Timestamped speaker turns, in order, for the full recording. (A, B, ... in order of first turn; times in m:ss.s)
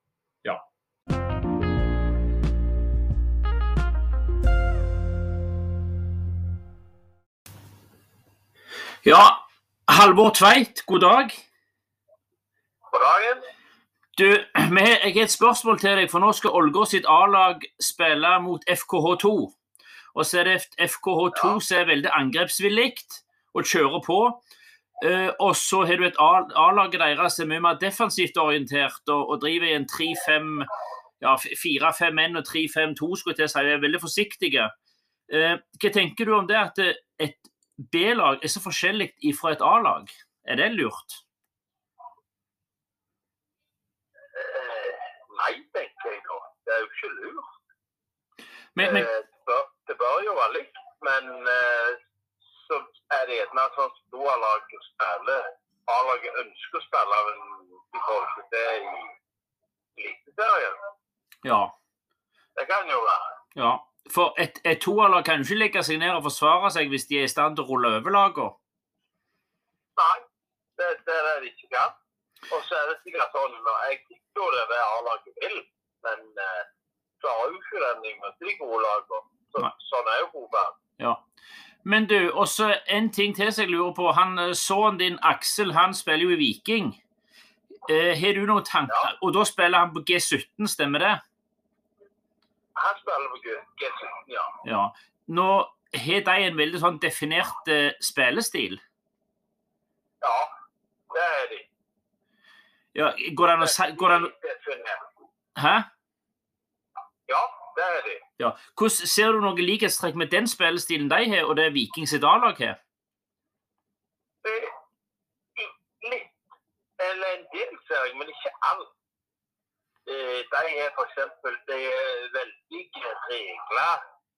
0:09.0-0:11.4 A
0:12.9-0:13.4 B
0:14.2-0:19.5 A
0:20.1-0:24.4 A
0:25.0-0:30.7 A
0:31.2-0:34.7 A
0:35.3-0:41.2 A
0:44.4-0:47.4 B
0:48.8-0:49.1 A
0:48.8-0:52.0 B
0:52.7-0:59.1 B
1:00.0-1:00.8 B
1:01.4-1:01.7 A
1:02.6-1:03.2 B
1:03.6-1:08.6 A
1:10.0-1:10.2 B
1:10.8-1:11.9 B
1:12.5-1:16.6 B
1:17.2-1:20.8 B
1:21.8-1:27.0 A
1:27.9-1:31.2 A
1:32.8-1:34.6 B
1:34.6-1:38.8 A
1:40.2-1:40.5 B
1:41.1-1:41.7 B
1:42.9-1:44.3 A
1:43.6-1:45.0 B
1:45.6-1:45.9 A
1:47.3-1:48.2 B
1:48.4-1:52.8 A
1:54.4-1:54.7 B
1:55.6-1:56.4 B
1:57.0-1:58.9 B
2:00.1-2:04.0 B